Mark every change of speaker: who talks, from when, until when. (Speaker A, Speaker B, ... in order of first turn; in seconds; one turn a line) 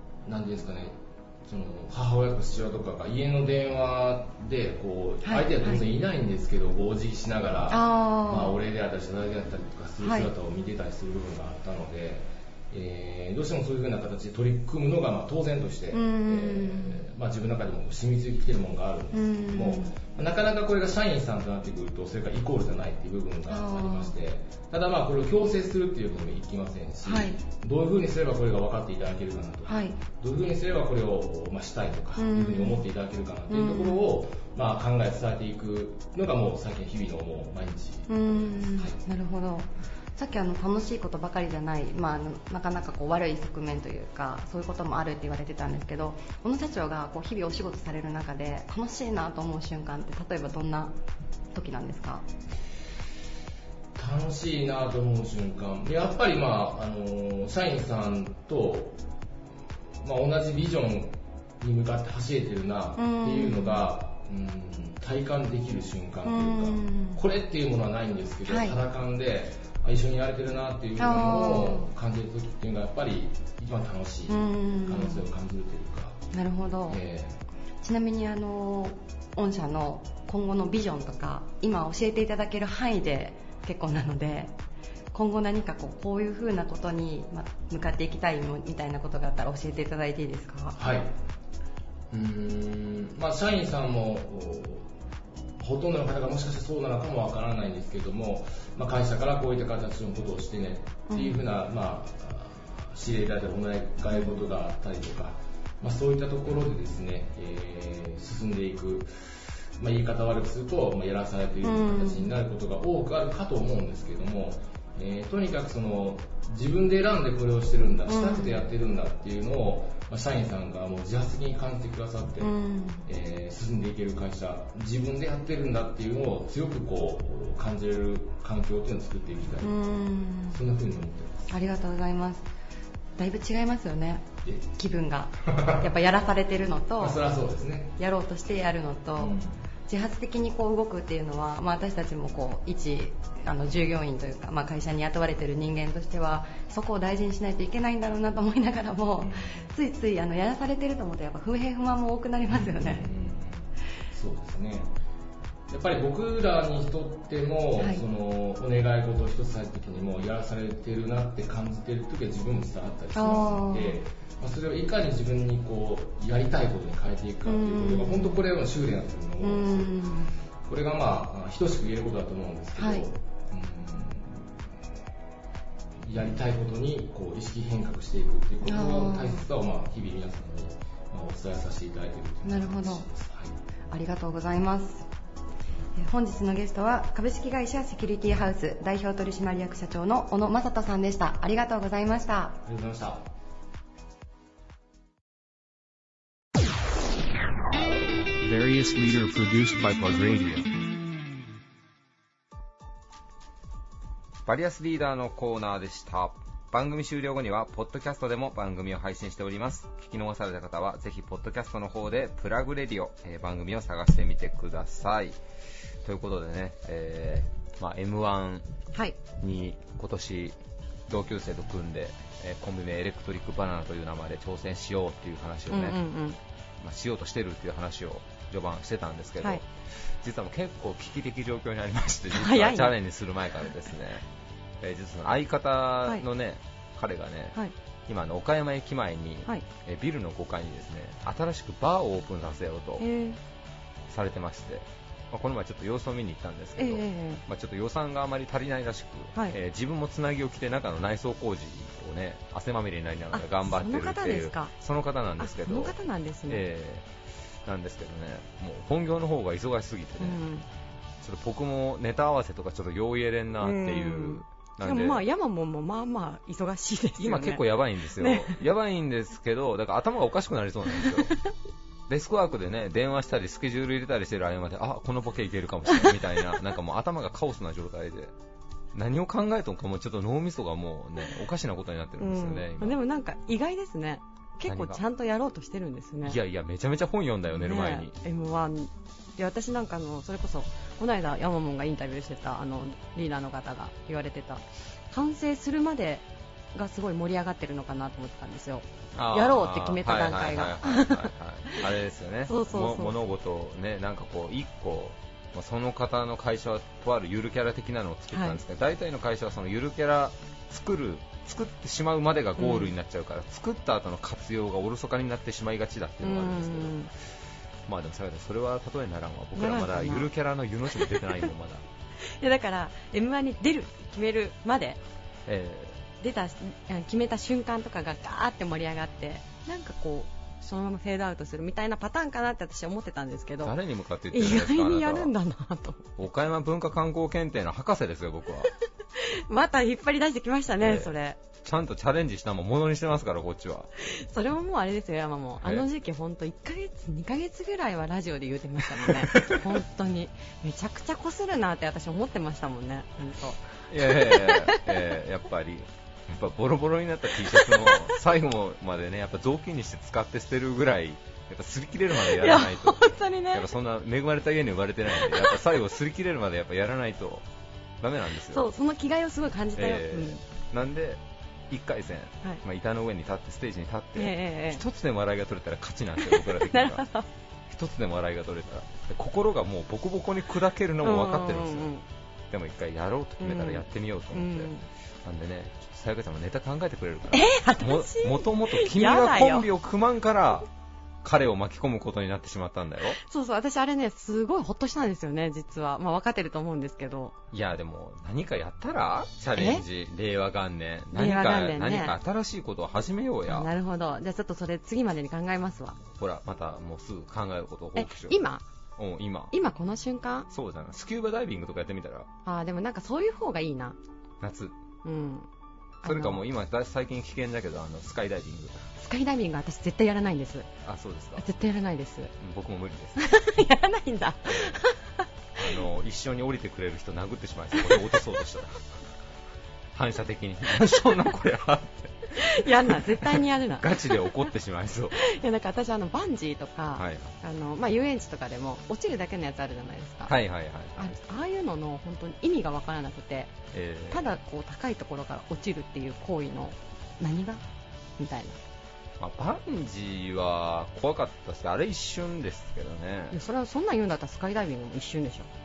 Speaker A: 0.2-39.0
Speaker B: 5.2-5.8
Speaker B: 7.7-8.6
Speaker B: 10.0-10.3
Speaker B: 15.9-17.0
Speaker B: 19.1-20.0
Speaker B: 23.5-24.1
Speaker B: 27.0-27.4
Speaker B: 29.6-30.0
Speaker B: 32.1-32.9
Speaker B: 33.5-34.0
Speaker B: 38.1-50.9
Speaker B: 51.5-52.2
Speaker A: 54.0-59.0
Speaker A: 60.0-76.2
Speaker B: 63.0-63.9
Speaker B: 66.2-67.2
Speaker B: 68.5-68.8
Speaker B: 71.0-71.9
Speaker B: 74.3-75.2
Speaker B: 76.3-77.0
Speaker A: 76.9-77.4
Speaker B: 77.8-84.5
Speaker B: 85.1-91.0
Speaker A: 90.7-91.1
Speaker A: 92.1-94.9
Speaker A: 95.6-129.8
Speaker B: 101.1-101.4
Speaker B: 111.6-112.3
Speaker B: 118.1-118.7
Speaker B: 122.4-123.0
Speaker B: 129.6-130.6
Speaker A: 130.5-131.5
Speaker B: 131.5-132.5
Speaker B: 133.2-137.2
Speaker A: 135.4-135.9
Speaker A: 137.0-137.9
Speaker B: 138.0-139.3
Speaker A: 139.2-139.6
Speaker B: 139.9-153.1
Speaker A: 149.2-149.7
Speaker A: 152.5-154.9
Speaker A: 155.7-170.1
Speaker B: 163.1-164.0
Speaker B: 167.4-168.4
Speaker B: 169.4-170.3
Speaker A: 170.6-174.7
Speaker B: 172.8-173.1
Speaker A: 176.0-183.5
Speaker B: 178.6-179.5
Speaker B: 182.4-183.1
Speaker B: 183.9-185.1
Speaker B: 185.9-192.6
Speaker A: 192.6-193.3
Speaker C: 198.4-200.7
Speaker D: 204.4-215.4
Speaker D: 216.0-218.7
Speaker D: 219.3-226.0
Speaker E: 225.7-226.4
Speaker D: 226.8-229.7
Speaker D: 230.2-234.2
Speaker E: 232.3-232.9
Speaker D: 234.8-243.0
Speaker E: 243.0-243.4
Speaker D: 244.1-257.1
Speaker E: 246.8-247.4
Speaker E: 253.3-254.7
Speaker E: 255.4-256.6
Speaker D: 257.6-260.4
Speaker E: 260.2-260.6
Speaker D: 261.2-265.2
Speaker E: 263.6-268.6
Speaker D: 267.2-271.4
Speaker D: 272.1-278.3
Speaker D: 278.9-283.0
Speaker E: 282.2-286.4
Speaker D: 284.7-285.0
Speaker D: 286.2-288.1
Speaker E: 287.5-301.9
Speaker D: 299.1-317.1
Speaker E: 302.5-303.2
Speaker E: 308.3-308.6
Speaker E: 312.6-312.9
Speaker E: 316.2-317.1
Speaker D: 317.9-321.8
Speaker E: 319.6-320.3
Speaker E: 320.9-321.4
Speaker E: 322.4-325.0
Speaker D: 325.4-326.1
Speaker E: 326.2-333.7
Speaker D: 333.6-335.3
Speaker E: 334.3-336.2
Speaker D: 336.2-338.7
Speaker E: 339.3-341.4
Speaker D: 340.8-343.9
Speaker E: 344.1-355.0
Speaker D: 345.6-345.9
Speaker D: 349.1-349.8
Speaker D: 353.9-367.5
Speaker E: 357.5-358.1
Speaker E: 362.2-363.7
Speaker E: 365.2-365.6
Speaker D: 368.0-368.6
Speaker E: 368.5-370.4
Speaker D: 369.8-377.1
Speaker E: 374.1-374.8
Speaker E: 376.2-377.3
Speaker D: 377.7-381.9
Speaker E: 381.0-382.0
Speaker D: 382.5-384.7
Speaker E: 383.4-384.9
Speaker D: 385.2-390.7
Speaker E: 387.3-389.7
Speaker D: 391.2-393.2
Speaker E: 393.3-397.4
Speaker D: 397.5-403.7
Speaker E: 399.6-399.8
Speaker E: 401.1-402.1
Speaker E: 403.5-406.0
Speaker D: 406.1-408.4
Speaker E: 407.9-408.6
Speaker D: 409.0-409.5
Speaker E: 409.5-410.5
Speaker D: 410.5-412.3
Speaker E: 412.4-414.0
Speaker D: 414.4-414.8
Speaker E: 415.0-415.5
Speaker E: 416.0-416.4
Speaker D: 416.0-418.9
Speaker E: 419.0-420.7
Speaker D: 420.8-421.6
Speaker E: 421.4-422.3
Speaker D: 422.4-423.3
Speaker E: 423.2-425.3
Speaker D: 424.4-424.8
Speaker D: 425.6-428.9
Speaker D: 429.9-435.2
Speaker E: 432.4-434.4
Speaker E: 435.2-440.4
Speaker D: 436.9-437.3
Speaker D: 440.3-441.2
Speaker E: 440.9-443.5
Speaker D: 443.7-444.2
Speaker E: 444.1-447.6
Speaker E: 448.2-448.6
Speaker D: 449.2-453.4
Speaker E: 453.3-455.5